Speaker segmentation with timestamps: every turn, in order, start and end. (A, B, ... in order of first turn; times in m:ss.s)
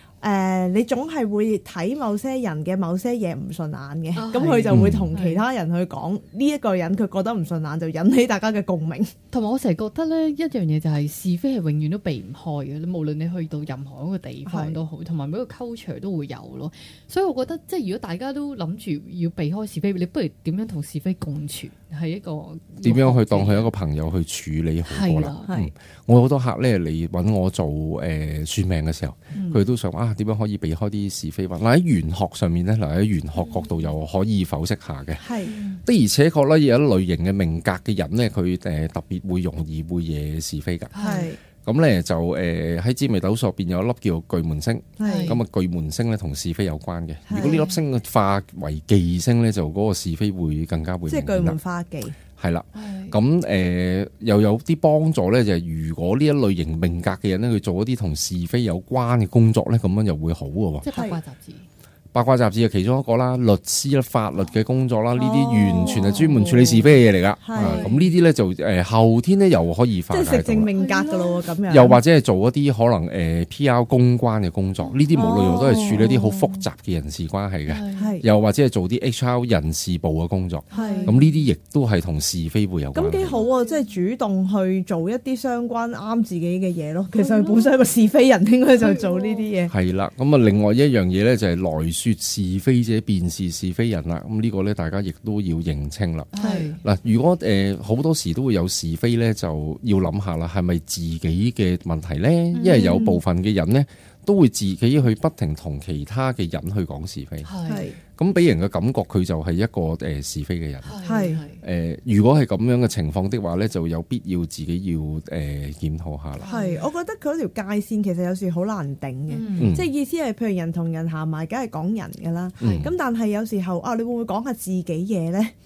0:00.2-0:09.1 A
0:04.2-0:05.4 B
0:04.7-0:05.1 C
0:09.3-0:23.7 B
0:14.5-0:14.8 A
0:22.8-0:35.2 C
0:24.9-0:25.5 B
0:29.3-0:29.6 B
0:33.4-0:33.9 B
0:35.2-0:35.5 A
0:35.4-0:35.8 B
0:35.8-0:40.9 C
0:40.9-0:41.3 B
0:41.0-0:41.4 A
0:41.6-0:51.6 C
0:45.0-0:45.4 A
0:45.0-0:45.4 B
0:47.3-0:47.7 A
0:47.4-0:47.8 B
0:51.1-0:52.2 A
0:52.4-1:00.9 C
0:52.7-0:53.2 B
1:00.8-1:01.7 B
1:00.9-1:01.2 A
1:02.1-1:10.7 C
1:05.2-1:06.2 A
1:05.5-1:06.9 B
1:07.4-1:07.8 A
1:07.6-1:08.1 B
1:10.1-1:12.0 A
1:10.7-1:11.5 B
1:11.7-1:23.4 C
1:15.1-1:16.4 A
1:15.5-1:16.5 B
1:17.7-1:18.2 B
1:17.9-1:18.3 A
1:20.7-1:21.4 B
1:20.7-1:21.2 A
1:23.0-1:29.7 A
1:23.3-1:23.9 B
1:27.1-1:27.8 B
1:28.7-1:29.5 B
1:29.7-1:36.3 C
1:36.3-1:36.8 B
1:36.4-1:36.8 A
1:36.8-1:47.5 C
1:42.6-1:43.2 A
1:42.7-1:43.0 B
1:47.4-1:47.9 B
1:47.7-1:48.0 A
1:48.2-1:51.0 C
1:50.8-1:51.6 B
1:51.0-1:51.4 A
1:51.6-1:56.5 C
1:56.4-1:56.8 B
1:56.5-2:05.5 A
1:59.3-1:59.8 B
1:59.6-1:59.9 C
2:02.6-2:02.9 B
2:02.6-2:02.9 C